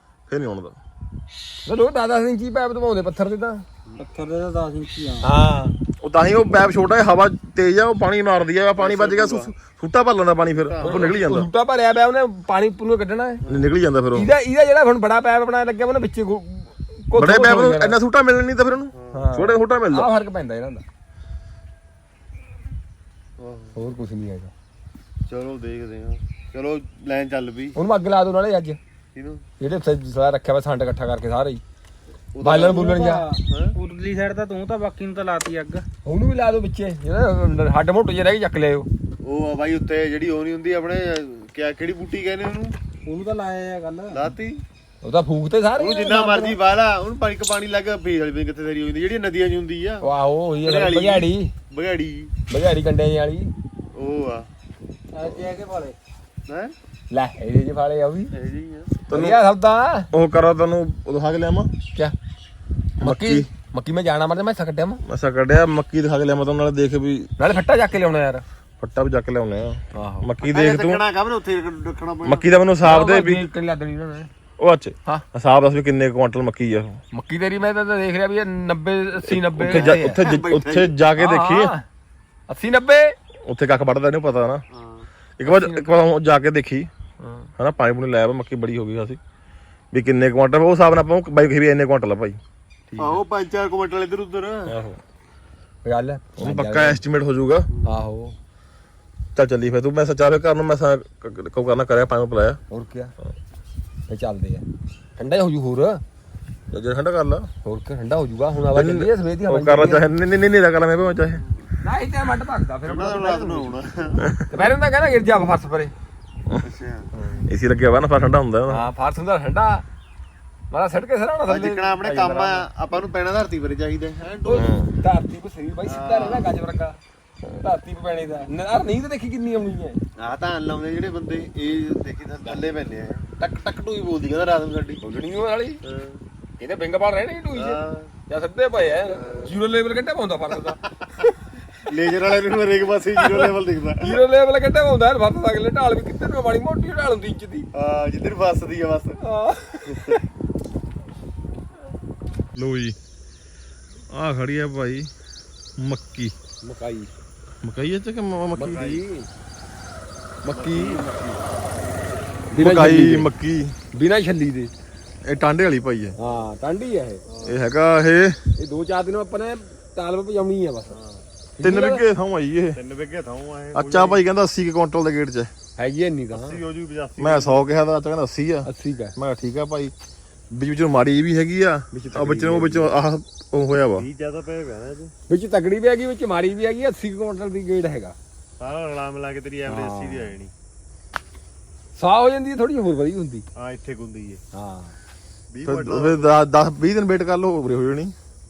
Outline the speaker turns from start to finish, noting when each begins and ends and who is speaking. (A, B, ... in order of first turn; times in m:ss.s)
0:00.3-0:00.8 A
0:01.6-0:03.6 B
0:04.0-0:05.3 C
0:05.2-0:05.7 B
0:06.0-0:11.5 A
0:08.8-0:09.5 D
0:10.5-0:11.1 D
0:10.8-0:13.4 B
0:13.4-0:13.7 D
0:13.5-0:14.3 A
0:14.1-0:18.0 B
0:17.2-0:20.1 A
0:18.9-0:19.2 D
0:19.1-0:20.8 B
0:23.4-0:23.8 D
0:23.7-0:24.5 B
0:25.3-0:27.8 D
0:27.7-0:28.8 B
0:29.1-0:29.4 D
0:29.6-0:31.6 B
0:32.3-0:32.9 D
0:32.4-0:33.2 B
0:32.5-0:35.8 C
0:33.5-0:33.8 D
0:36.0-0:38.9 B
0:39.2-0:42.7 D
0:43.1-0:44.2 C
0:44.1-0:44.6 D
0:45.0-0:46.6 B
0:45.8-0:50.0 D
0:50.0-0:51.5 B
0:50.6-0:52.3 D
0:52.5-0:53.5 B
0:53.9-0:54.5 D
0:55.1-0:56.0 C
0:56.5-0:56.7 D
0:57.1-0:58.3 B
0:58.3-0:58.9 D
0:59.1-0:59.4 A
0:59.1-1:00.1 B
1:00.1-1:01.7 A
1:03.0-1:03.5 A
1:03.0-1:05.0 B
1:05.0-1:07.3 A
1:07.4-1:08.4 B
1:08.8-1:11.0 A
1:09.9-1:10.3 B
1:10.4-1:12.5 D
1:12.2-1:13.4 A
1:12.8-1:14.3 B
1:14.6-1:17.0 A
1:17.1-1:20.2 B
1:19.2-1:21.7 A
1:19.6-1:20.9 D
1:21.2-1:21.8 B
1:22.5-1:23.1 B
1:23.4-1:24.6 A
1:24.7-1:25.1 D
1:25.4-1:26.9 A
1:25.4-1:25.8 B
1:27.2-1:27.5 B
1:27.6-1:29.2 A
1:29.9-1:32.4 A
1:32.9-1:33.2 B
1:33.0-1:34.7 D
1:34.7-1:35.0 A
1:35.8-1:37.0 B
1:36.4-1:37.7 A
1:37.8-1:38.3 B
1:39.3-1:42.6 A
1:42.7-1:43.1 B
1:44.1-1:44.6 B
1:45.2-1:46.0 B
1:46.7-1:47.5 A
1:47.6-1:50.0 B
1:48.7-1:51.4 A
1:51.8-1:53.7 B
1:52.8-1:54.2 D
1:54.2-1:54.5 A
1:54.5-1:55.9 B
1:56.6-1:57.4 D
1:57.5-1:58.9 A
1:58.7-1:59.8 B
2:00.7-2:02.6 B
2:01.5-2:04.7 D
2:04.4-2:07.0 B
2:04.5-2:04.9 A
2:05.8-2:06.5 D
2:07.5-2:10.0 B
2:10.2-2:15.0 D
2:15.0-2:15.8 B
2:15.8-2:16.2 D
2:16.6-2:21.4 B
2:17.6-2:18.1 D
2:19.2-2:19.5 D
2:20.7-2:21.2 D
2:21.9-2:24.2 D
2:23.2-2:27.7 B
2:27.7-2:29.2 D
2:29.2-2:30.2 B
2:29.9-2:30.2 D
2:32.5-2:33.0 A
2:34.1-2:35.1 A
2:35.8-2:36.3 A
2:36.6-2:37.1 B
2:37.6-2:39.0 A
2:38.5-2:39.3 B
2:38.6-2:39.0 D
2:40.4-2:41.0 B
2:40.5-2:41.4 D
2:42.5-2:43.3 B
2:42.6-2:43.8 A
2:43.9-2:44.7 B
2:45.2-2:46.1 A
2:46.2-2:47.2 B
2:47.2-2:47.6 D
2:47.4-2:48.4 A
2:48.6-2:50.9 B
2:50.9-2:51.2 D
2:51.6-2:52.0 B
2:51.6-2:52.8 A
2:52.7-2:54.2 D
2:53.7-2:55.5 A
2:55.8-2:56.6 B
2:56.3-2:57.6 D
2:57.2-2:59.9 A
2:58.6-2:59.2 B
3:00.5-3:04.0 A
3:01.9-3:02.9 B
3:03.9-3:05.1 D
3:05.3-3:08.2 B
3:08.6-3:10.5 D
3:09.7-3:10.3 B
3:12.0-3:13.4 B
3:13.6-3:14.4 D
3:14.5-3:15.0 B
3:15.5-3:16.3 D
3:15.6-3:18.1 A